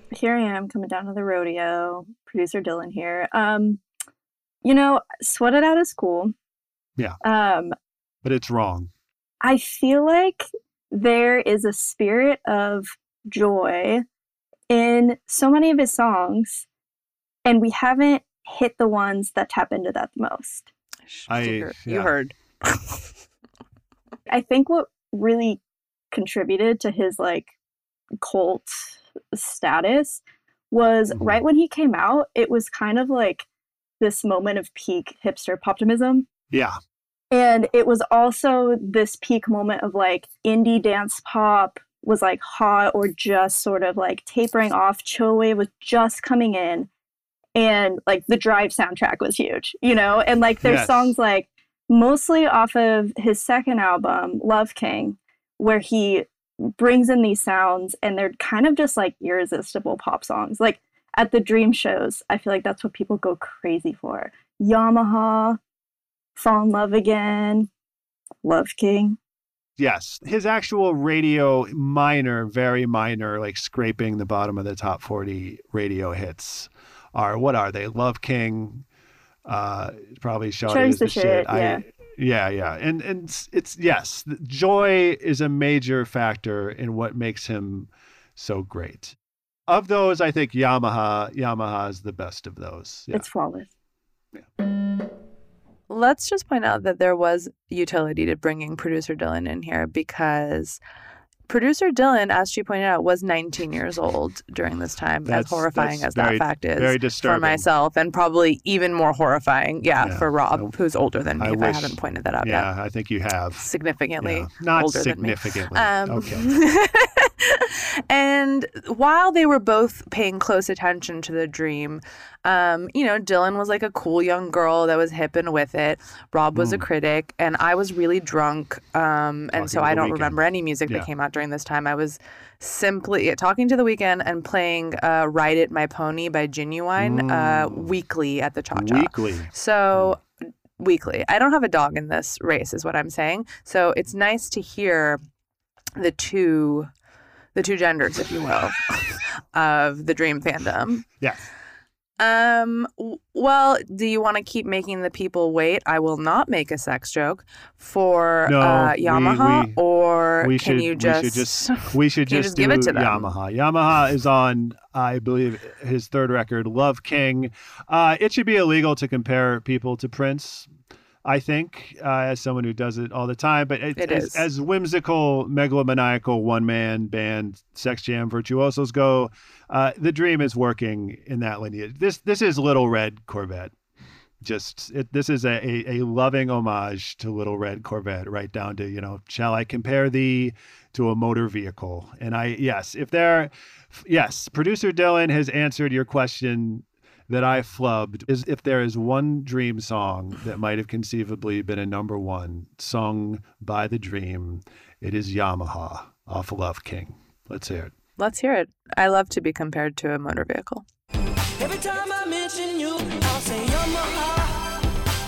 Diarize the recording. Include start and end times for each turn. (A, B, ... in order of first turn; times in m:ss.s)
0:00.1-0:03.8 A
0:04.6-0:06.3 A
0:07.2-0:07.7 A
0:08.2-0:08.9 B
0:09.4-0:14.0 A
0:14.7-0:16.7 A
0:17.4-0:20.7 A
0:21.1-0:23.0 C
0:21.3-0:22.1 B
0:24.3-0:25.6 A
0:26.1-0:27.5 A
0:28.2-0:33.4 A
0:31.1-0:31.4 B
0:34.0-0:36.3 A
0:37.3-0:46.9 A
0:47.5-1:05.6 A
0:50.6-0:51.1 B
1:06.4-1:07.7 A
1:08.4-1:09.2 A
1:09.8-1:18.8 B
1:19.4-1:29.2 B
1:20.7-1:21.8 A
1:29.7-1:33.2 B
1:33.1-1:33.7 A
1:35.9-1:40.8 C
1:41.5-1:52.7 C
1:45.2-1:47.6 B
1:50.0-1:50.7 B
1:51.4-1:53.7 B
1:53.6-2:20.2 C
1:54.2-1:56.5 B
2:06.5-2:06.8 B
2:09.5-2:11.1 B
2:17.0-2:17.9 B
2:18.7-2:20.1 B
2:20.8-2:25.2 C
2:26.0-2:26.9 C
2:27.5-2:31.0 C
2:31.2-2:31.4 B
2:32.2-2:43.3 C
2:38.4-2:39.8 B
2:40.4-2:50.7 B
2:51.2-3:03.7 B
2:54.0-2:54.4 C
3:04.4-3:27.9 B
3:28.2-3:30.8 C
3:31.6-3:34.8 D